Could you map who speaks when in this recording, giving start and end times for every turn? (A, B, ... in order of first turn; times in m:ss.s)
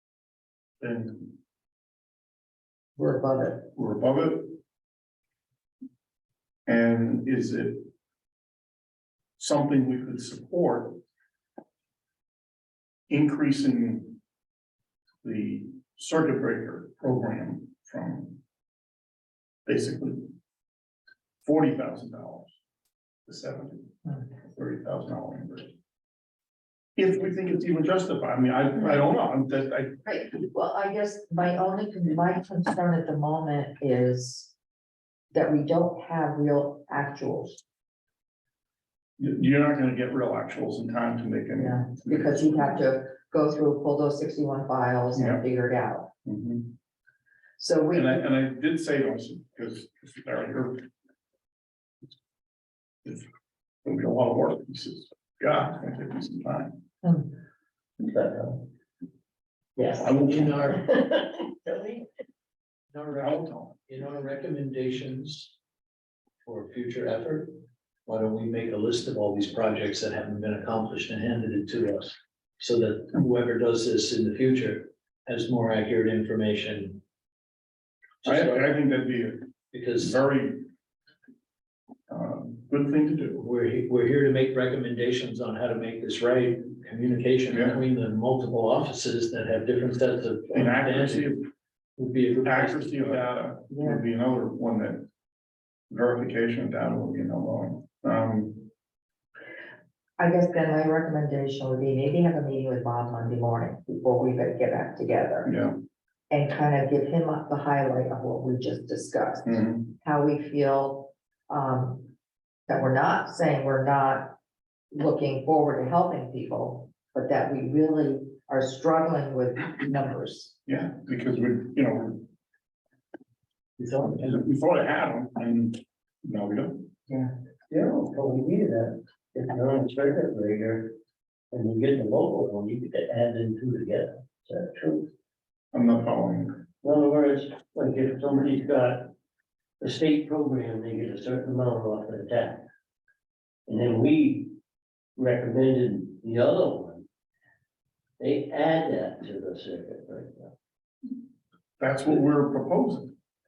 0:00.8-0:01.3 A
0:03.0-0:03.7 B
0:03.7-0:04.6 A
0:06.7-0:07.9 A
0:09.4-0:11.0 A
0:13.1-0:14.2 A
0:15.2-0:18.4 A
0:19.6-0:20.3 A
0:21.4-0:22.5 A
0:23.3-0:23.9 A
0:24.4-0:25.7 A
0:27.0-0:29.9 A
0:30.0-0:34.5 B
0:35.3-0:37.6 B
0:39.2-0:42.8 A
0:41.6-0:46.1 B
0:45.1-0:45.4 A
0:46.2-0:46.7 A
0:47.6-0:48.2 B
0:47.9-0:50.9 A
0:53.8-0:56.8 A
0:58.0-0:58.6 C
0:59.8-1:02.0 C
1:00.0-1:00.8 A
1:00.2-1:00.7 D
1:02.9-1:05.5 D
1:03.1-1:03.8 A
1:06.4-1:07.5 D
1:08.0-1:17.0 D
1:18.2-1:18.7 D
1:18.2-1:20.7 A
1:19.7-1:20.2 D
1:22.1-1:23.4 A
1:23.4-1:31.3 D
1:27.5-1:27.8 A
1:30.5-1:31.4 A
1:32.0-1:33.2 D
1:32.4-1:35.0 A
1:33.7-1:34.0 B
1:35.9-1:38.7 A
1:40.2-1:45.5 B
1:45.4-1:45.7 A
1:46.3-1:52.1 B
1:49.4-1:49.9 A
1:52.7-1:54.4 B
1:54.9-2:00.5 B
2:00.6-2:02.2 A
2:03.8-2:04.2 D
2:04.1-2:06.9 A
2:07.7-2:10.9 C
2:11.5-2:15.1 C
2:15.7-2:16.6 A
2:16.8-2:19.1 C
2:19.8-2:22.6 C
2:23.7-2:24.5 C
2:25.2-2:27.0 C
2:28.2-2:30.5 C
2:31.8-2:33.1 A